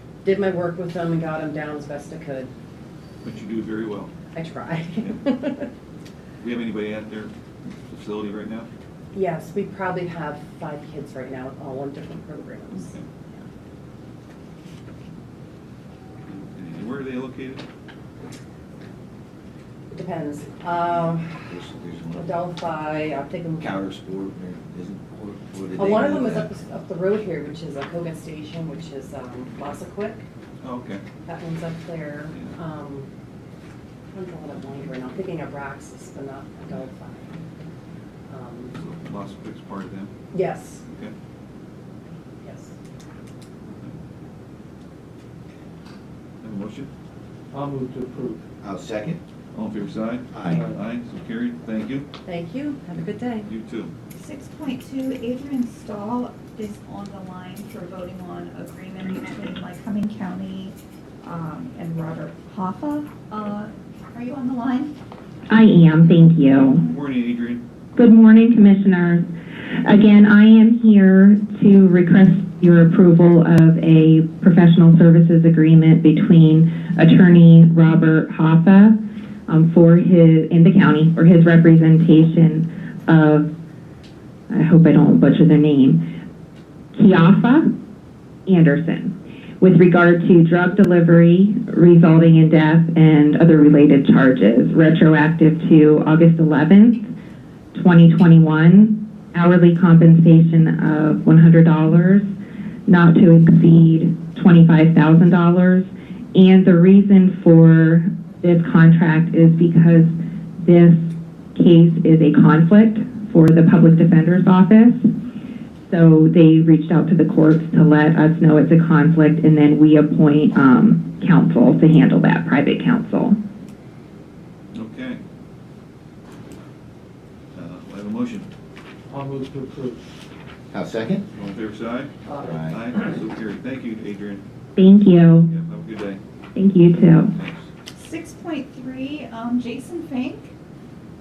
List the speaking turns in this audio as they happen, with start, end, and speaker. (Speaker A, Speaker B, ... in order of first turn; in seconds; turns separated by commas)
Speaker A: 0.2-2.5, Speaker B: 3.2-4.1, Speaker A: 4.3-5.7, Speaker B: 6.4-8.7, Speaker A: 9.1-13.4, Speaker B: 12.8-13.1, Speaker B: 16.2-17.6, Speaker A: 19.9-21.5, Speaker C: 21.5-22.3, Speaker A: 22.1-23.7, Speaker C: 23.6-26.5, Speaker A: 25.7-30.2, Speaker B: 30.6-31.0, Speaker A: 31.2-33.1, Speaker A: 34.1-37.4, Speaker A: 38.3-38.7, Speaker B: 38.7-40.1, Speaker A: 40.3-40.8, Speaker B: 40.9-41.1, Speaker A: 42.4-42.7, Speaker B: 43.6-43.9, Speaker B: 46.4-46.9, Speaker D: 47.5-48.5, Speaker C: 48.6-49.2, Speaker B: 49.5-52.1, Speaker C: 50.3-50.7, Speaker D: 50.4-50.8, Speaker A: 52.2-53.5, Speaker B: 53.4-53.9, Speaker E: 54.1-65.0, Speaker F: 65.5-66.8, Speaker E: 66.5-66.9, Speaker B: 66.8-67.6, Speaker F: 68.0-69.3, Speaker F: 69.8-83.5, Speaker F: 84.5-86.0, Speaker F: 86.9-87.7, Speaker F: 88.5-97.1, Speaker F: 97.7-102.3, Speaker F: 102.9-115.1, Speaker F: 115.9-123.4, Speaker B: 124.7-125.2, Speaker B: 127.5-128.5, Speaker D: 129.1-130.0, Speaker C: 130.7-131.2, Speaker B: 131.3-132.1, Speaker D: 132.2-133.2, Speaker C: 132.4-132.9, Speaker B: 132.7-134.4, Speaker F: 134.8-135.5, Speaker B: 135.4-136.2, Speaker F: 136.5-137.3, Speaker B: 137.3-137.7, Speaker E: 137.9-140.5